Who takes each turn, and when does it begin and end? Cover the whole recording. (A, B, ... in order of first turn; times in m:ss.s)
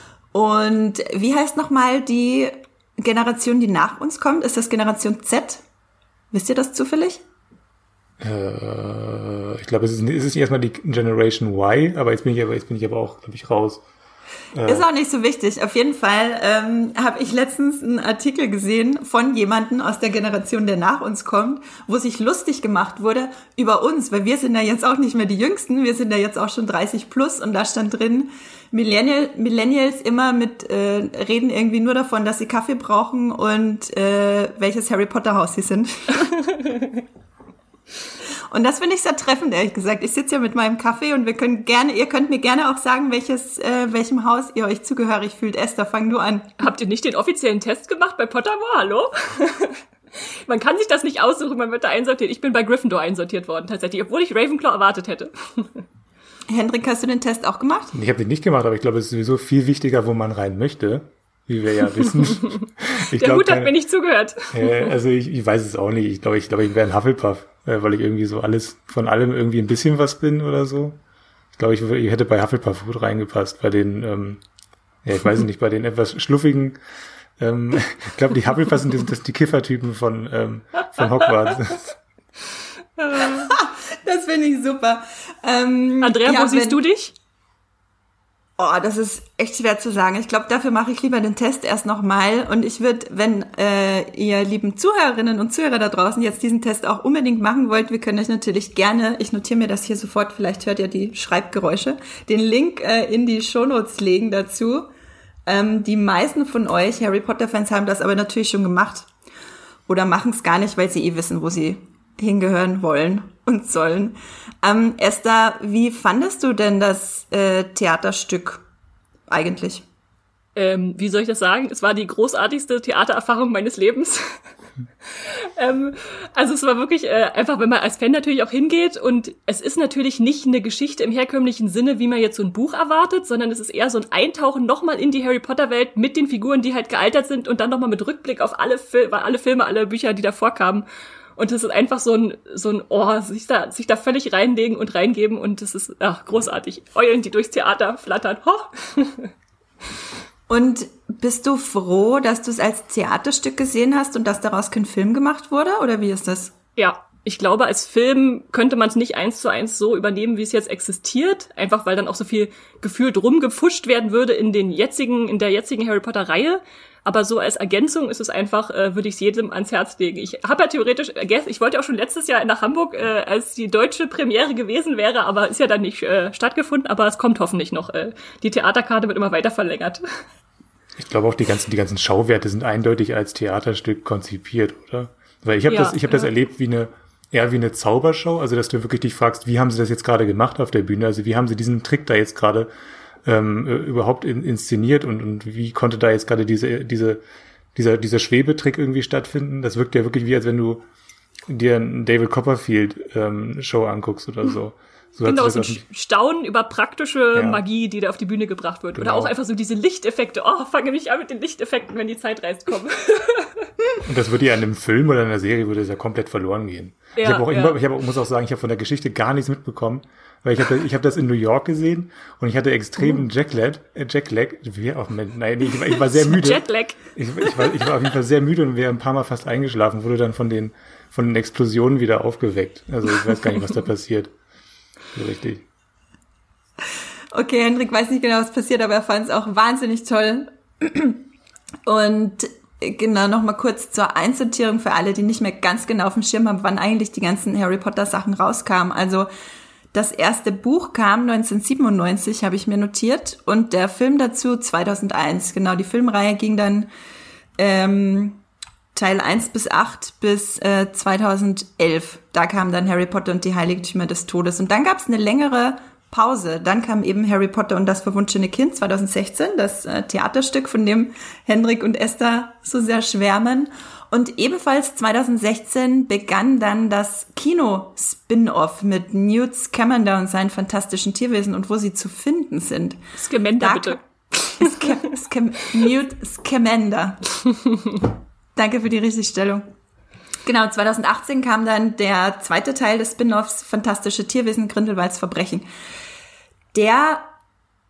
0:00.3-0:05.6 A
0:06.3-0:07.2 A
0:08.2-0:13.8 B
0:14.5-0:14.8 B
0:14.6-0:36.3 A
0:38.5-0:46.5 A
0:46.6-0:55.8 C
0:56.5-0:58.0 A
0:57.9-1:03.7 B
1:02.3-1:04.9 C
1:04.5-1:11.0 B
1:11.6-1:14.4 B
1:15.0-1:16.8 B
1:17.4-1:22.0 B
1:23.0-1:23.5 C
1:23.1-1:26.8 A
1:26.0-1:27.2 C
1:28.6-1:44.9 A
1:45.5-1:49.1 A
1:49.9-1:58.6 A
1:59.3-1:59.8 A
2:00.6-2:04.4 C
2:05.1-2:20.8 C
2:21.4-2:29.3 C
2:30.5-2:36.5 A
2:36.8-3:00.0 C
3:01.0-3:12.7 B
3:05.7-3:06.3 C
3:13.2-3:17.2 B
3:17.8-3:20.8 B
3:21.5-3:25.8 B
3:25.2-3:33.7 C
3:27.3-3:27.6 B
3:29.0-3:29.3 B
3:34.0-3:54.3 B
3:37.2-3:37.8 C
3:45.9-3:47.0 C
3:55.2-3:55.6 B
3:57.3-4:01.2 A
4:01.9-4:09.3 A
4:09.9-4:16.9 A
4:17.6-4:18.4 A
4:19.0-4:43.0 A
4:43.2-4:45.0 C
4:43.6-4:44.0 A
4:44.5-4:47.2 A
4:48.6-4:49.6 A
4:50.5-4:55.7 A
4:56.7-4:57.3 A